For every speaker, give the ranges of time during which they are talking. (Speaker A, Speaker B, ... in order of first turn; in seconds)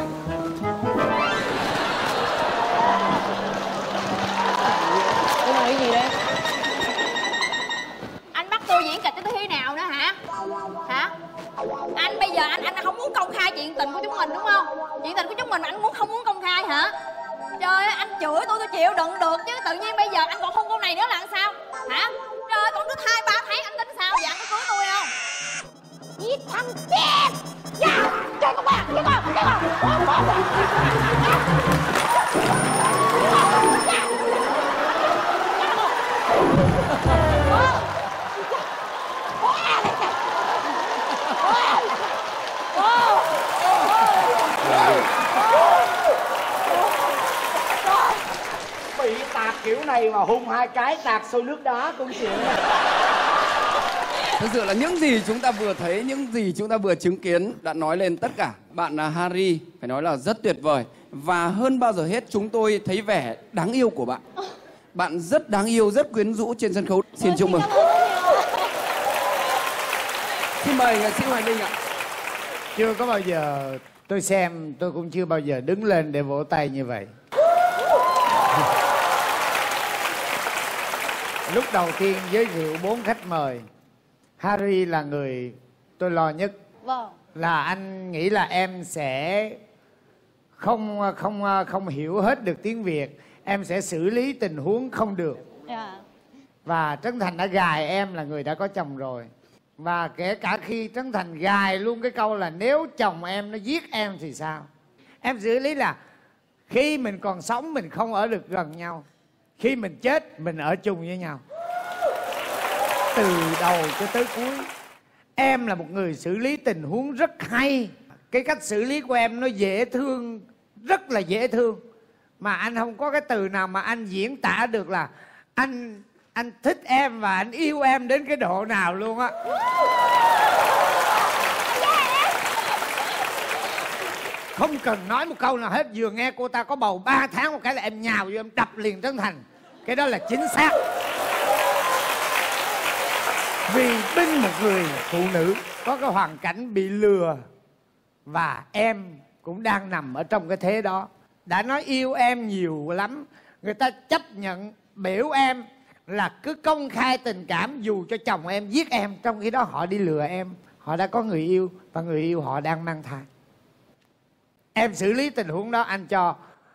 Speaker A: 4.9-6.1, 26.2-27.4, 27.9-30.2, 42.8-43.2, 44.1-44.4, 67.2-68.7, 86.8-87.2, 95.7-96.0
Speaker B: 8.3-10.2, 10.8-11.1, 11.9-16.9, 17.6-25.1
Speaker C: 44.6-45.1, 54.4-64.2, 64.9-67.7, 70.6-71.7
Speaker D: 48.9-52.6
Speaker E: 72.8-77.1, 81.5-83.7, 84.4-86.5, 87.4-89.6, 90.6-95.4, 96.7-104.7, 105.2-106.0, 106.7-109.0, 109.6-111.4, 113.1-114.7, 115.4-121.8, 122.4-129.3, 134.6-140.8, 143.7-147.4, 148.3-163.3, 164.8-166.4